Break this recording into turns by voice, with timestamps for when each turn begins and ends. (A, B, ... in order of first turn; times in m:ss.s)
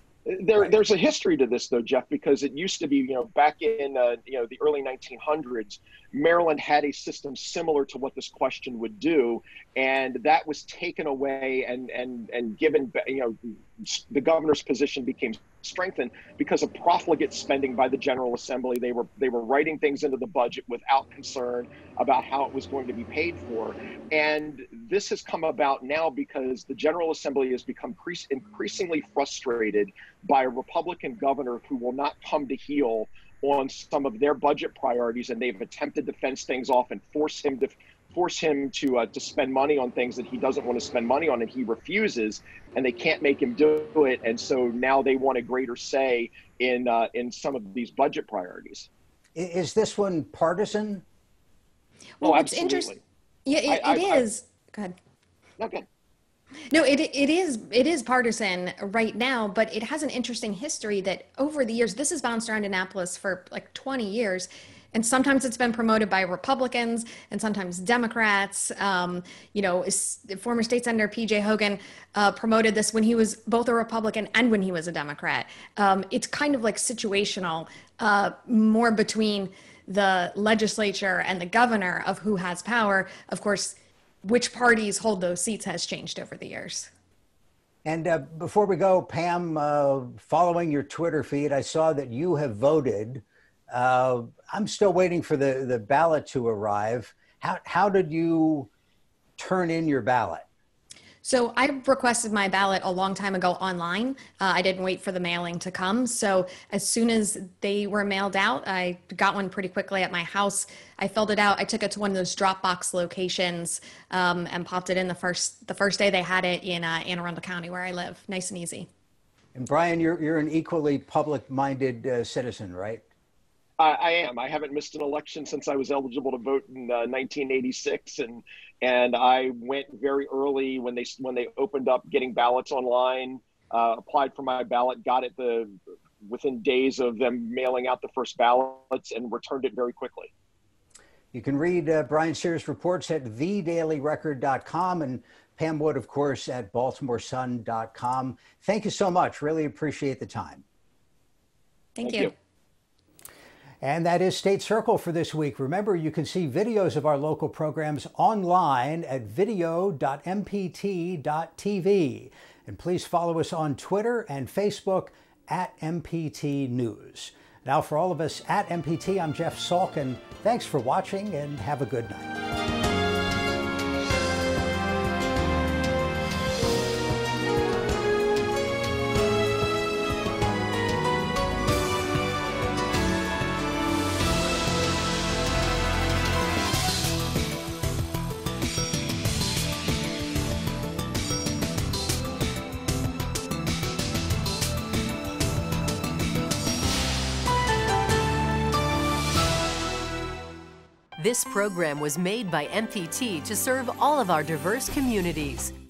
0:00.2-0:48.9 A
0:49.3-0:51.0 B
0:52.2-0:52.9 C
0:52.2-0:53.0 A
0:53.4-0:54.9 C
0:53.7-0:54.2 A
0:55.6-0:55.8 A
0:56.7-1:26.9 C
1:27.8-1:38.7 B
1:39.4-1:40.4 B
1:41.2-1:58.9 C
1:59.5-2:03.0 B
2:03.8-2:20.3 A
2:21.3-2:30.6 B
2:32.0-2:32.3 C
2:32.0-2:32.3 A
2:33.8-2:52.3 B
3:21.2-3:25.7 D